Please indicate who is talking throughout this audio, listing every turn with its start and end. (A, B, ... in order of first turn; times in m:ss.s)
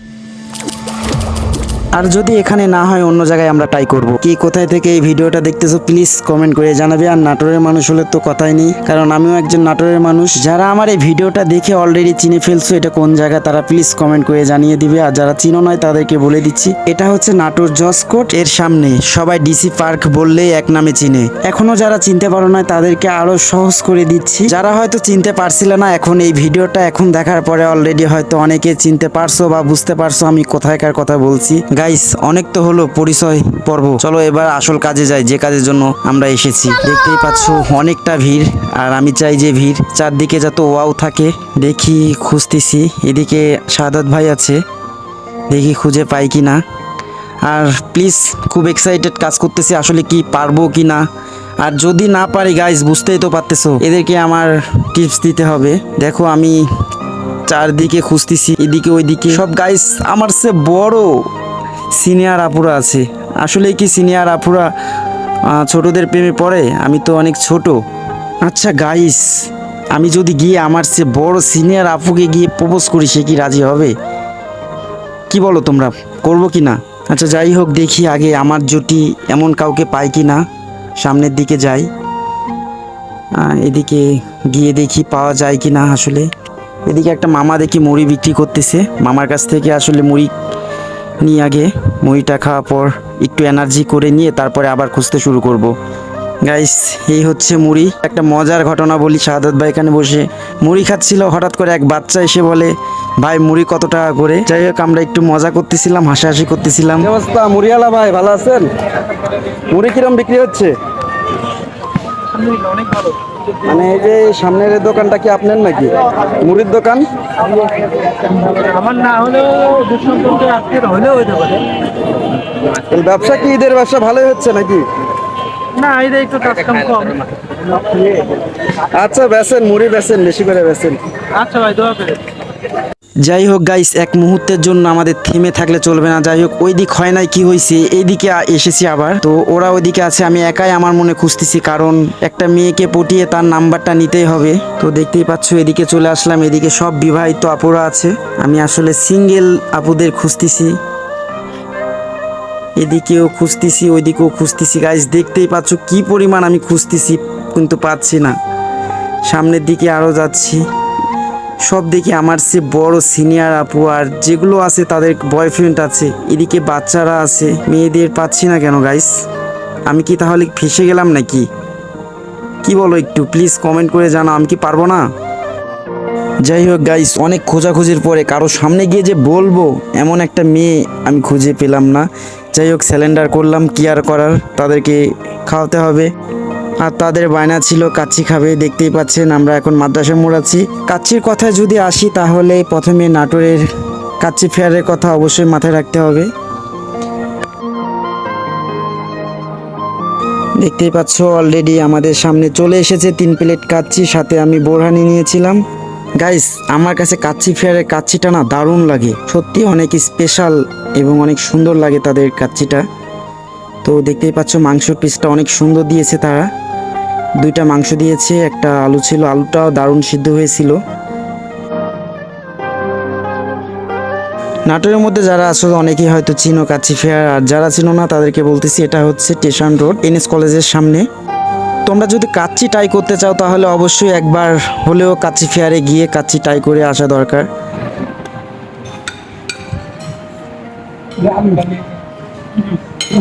0:02.0-0:44.6 A
0:45.5-0:46.6 A
0:47.5-0:51.0 A
0:51.6-0:56.6 A
0:57.5-1:01.1 A
1:02.0-1:04.7 A
1:05.5-1:07.8 A
1:08.4-1:13.9 A
1:15.3-1:20.4 A
1:21.0-1:21.9 A
1:23.4-1:26.3 A
1:26.9-1:30.3 A
1:31.2-1:35.7 A
1:36.4-1:48.6 A
1:47.2-1:48.7 B
1:49.7-1:50.7 B
1:49.8-1:50.6 A
1:52.3-1:53.2 C
1:53.6-1:57.0 B
1:53.8-1:55.6 A
1:56.4-1:57.0 A
1:58.3-2:01.7 C
2:02.7-2:04.8 B
2:03.7-2:04.7 A
2:05.8-2:07.2 C
2:07.8-2:08.3 B
2:08.9-2:11.0 B
2:11.3-2:12.3 C
2:13.2-2:30.8 A
2:32.8-2:38.4 A
2:39.2-2:40.6 A
2:41.6-2:49.1 A
2:49.9-2:51.5 A
2:52.6-2:55.0 A
2:56.4-3:06.1 A
3:06.8-3:13.7 A
3:14.2-3:16.3 A
3:20.6-3:25.6 A
3:26.2-3:32.8 A
3:33.8-3:36.5 A
3:37.4-3:40.8 A
3:44.7-3:51.0 A
3:51.9-3:57.5 A